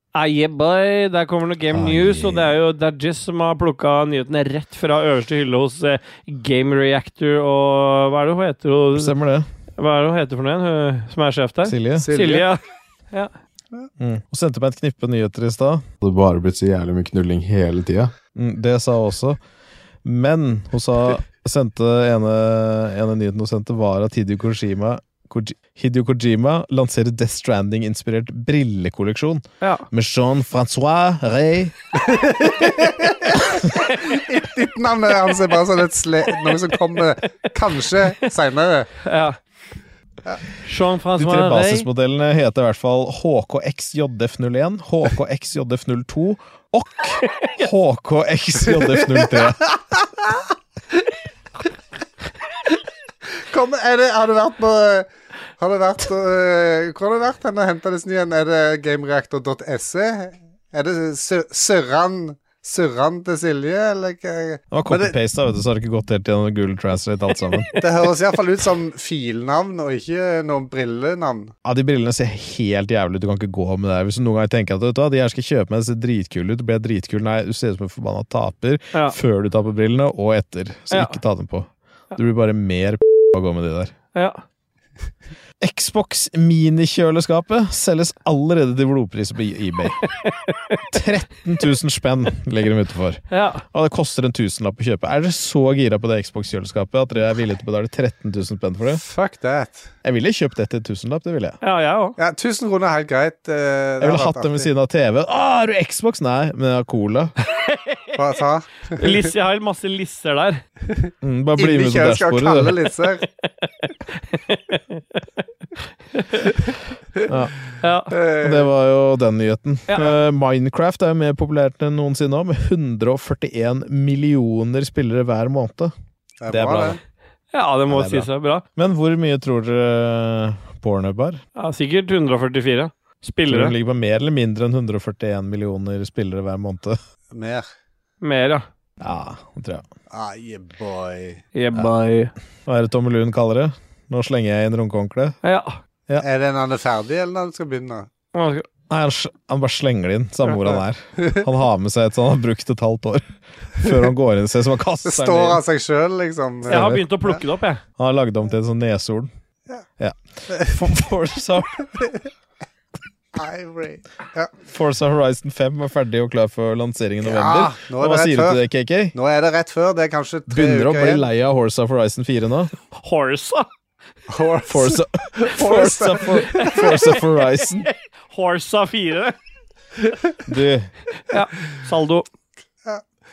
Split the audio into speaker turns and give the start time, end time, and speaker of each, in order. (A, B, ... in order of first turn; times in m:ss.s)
0:00.1-0:09.1 A
0:01.7-0:02.5 B
0:08.9-0:09.5 B
0:09.8-0:12.6 A
0:11.6-0:12.1 B
0:12.0-0:12.5 C
0:14.0-0:19.4 B
0:20.0-0:31.7 B
0:32.0-0:38.9 C
0:39.0-0:39.4 A
0:40.6-0:41.9 A
0:41.1-0:49.7 B
0:48.8-0:49.4 C
0:53.4-1:05.1 C
1:04.7-1:07.7 B
1:07.8-1:11.5 C
1:11.6-1:23.9 B
1:20.9-1:21.2 A
1:24.1-1:24.4 A
1:25.6-1:30.0 B
1:30.1-1:30.8 A
1:30.9-1:39.0 B
1:33.3-1:33.6 A
1:38.9-1:39.9 C
1:40.0-1:41.6 B
1:41.6-1:42.2 A
1:42.2-1:44.7 C
1:44.0-1:47.3 B
1:47.5-1:48.2 A
1:48.2-1:49.3 C
1:49.0-1:50.6 A
1:50.9-1:53.2 C
1:51.2-1:52.9 B
1:53.4-1:55.2 A
1:56.1-1:56.6 A
1:57.3-1:57.5 B
1:57.8-1:58.1 A
1:58.1-1:58.7 C
1:58.3-2:05.9 B
2:06.4-2:07.0 C
2:06.5-2:07.0 B
2:07.5-2:08.6 A
2:07.9-2:11.4 B
2:11.6-2:13.7 A
2:13.5-2:17.0 B
2:17.3-2:17.7 C
2:18.2-2:18.6 A
2:19.0-2:19.8 B
2:20.1-2:21.4 C
2:21.5-2:22.3 A
2:22.6-2:25.4 B
2:25.4-2:25.8 A
2:26.2-2:28.1 C
2:28.3-2:28.6 A
2:28.9-2:35.6 B
2:35.0-2:37.4 C
2:36.7-2:37.0 B
2:36.7-2:37.8 A
2:38.0-2:39.3 B
2:40.0-2:41.9 B
2:40.5-2:40.8 C
2:43.3-2:44.5 C
2:44.6-2:49.1 B
2:47.2-2:48.6 C
2:49.1-2:51.2 C
2:50.5-2:52.7 B
2:53.0-2:53.7 A
2:54.3-2:56.9 C
2:54.7-2:57.9 B
2:57.8-2:59.4 A
3:00.4-3:00.9 B
3:01.3-3:02.2 A